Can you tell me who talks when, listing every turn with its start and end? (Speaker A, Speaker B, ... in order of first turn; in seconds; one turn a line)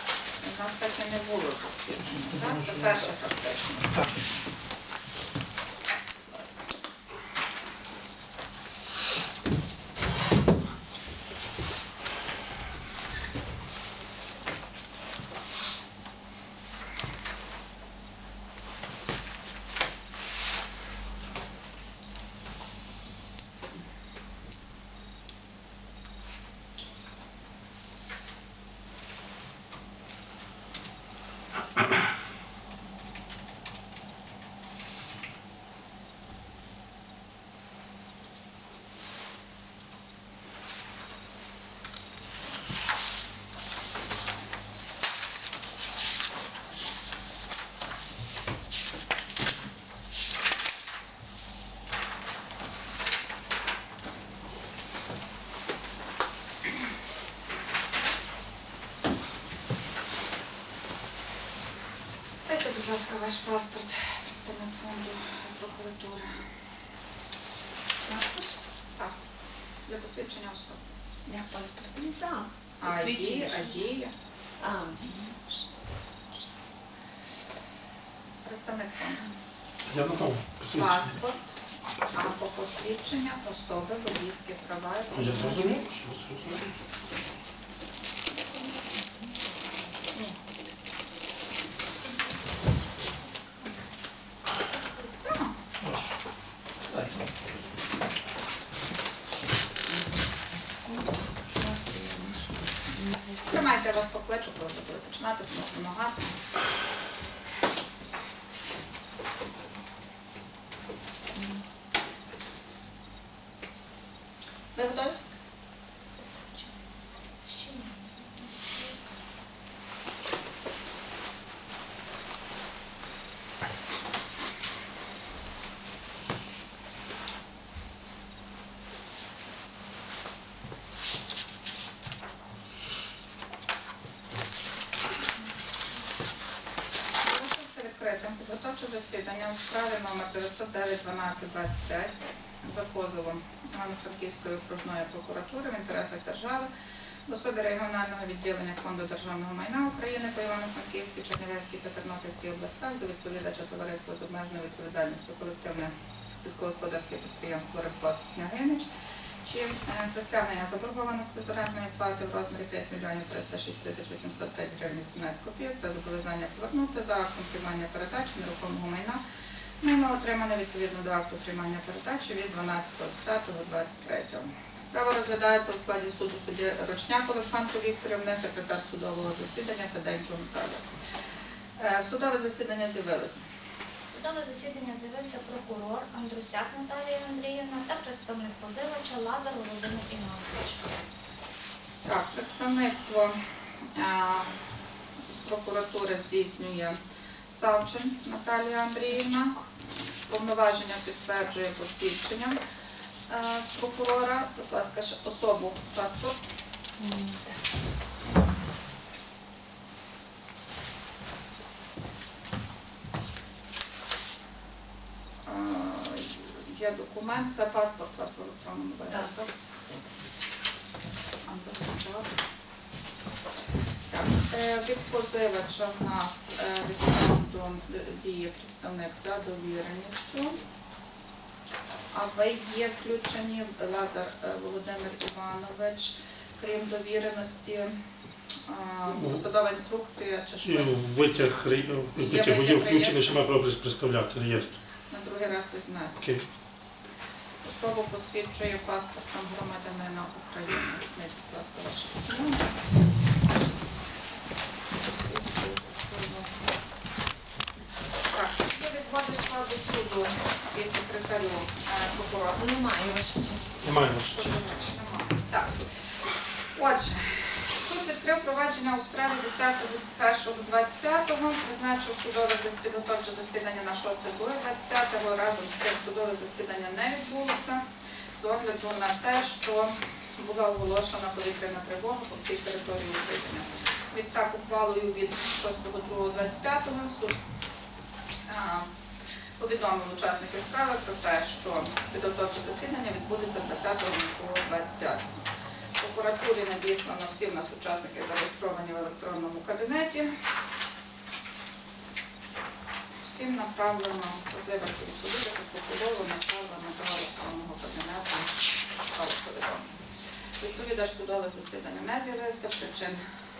Speaker A: 0.4-4.2
Speaker B: 2.1-3.0
Speaker B: 3.9-4.2
Speaker A: 6.2-6.6
Speaker A: 62.5-66.4
Speaker A: 68.1-69.3
Speaker A: 69.8-70.8
Speaker C: 71.3-73.9
Speaker A: 72.8-74.1
Speaker C: 74.6-75.3
Speaker A: 78.4-79.3
Speaker B: 79.9-81.1
Speaker A: 80.7-81.4
Speaker A: 82.1-85.7
Speaker B: 85.1-86.7
Speaker D: 88.5-89.8
Speaker D: 92.0-92.4
Speaker A: 95.2-95.5
Speaker B: 95.8-96.1
Speaker B: 96.9-97.4
Speaker C: 100.8-103.7
Speaker A: 103.5-106.3
Speaker A: 114.7-115.2
Speaker D: 116.3-119.3
Speaker A: 137.2-146.7
Speaker A: 147.2-158.9
Speaker A: 159.4-169.2
Speaker A: 169.8-180.8
Speaker A: 181.8-183.4
Speaker D: 184.1-191.0
Speaker A: 192.0-193.4
Speaker A: 193.9-194.5
Speaker A: 195.4-197.0
Speaker A: 197.5-199.6
Speaker A: 200.3-202.6
Speaker A: 203.3-206.4
Speaker C: 207.0-207.6
Speaker A: 215.4-219.5
Speaker A: 221.4-222.3
Speaker A: 224.1-230.6
Speaker A: 232.1-237.9
Speaker A: 238.7-241.1
Speaker B: 239.1-239.4
Speaker B: 240.6-244.8
Speaker A: 242.2-243.4
Speaker A: 245.1-246.2
Speaker B: 246.2-246.4
Speaker A: 247.6-252.8
Speaker A: 255.1-256.5
Speaker A: 258.3-262.6
Speaker C: 262.6-263.9
Speaker B: 263.8-264.5
Speaker A: 264.2-265.9
Speaker A: 266.7-277.8
Speaker A: 278.3-287.4
Speaker A: 288.4-288.9
Speaker A: 289.6-295.3
Speaker A: 296.0-300.3
Speaker A: 303.2-309.9
Speaker A: 310.6-313.2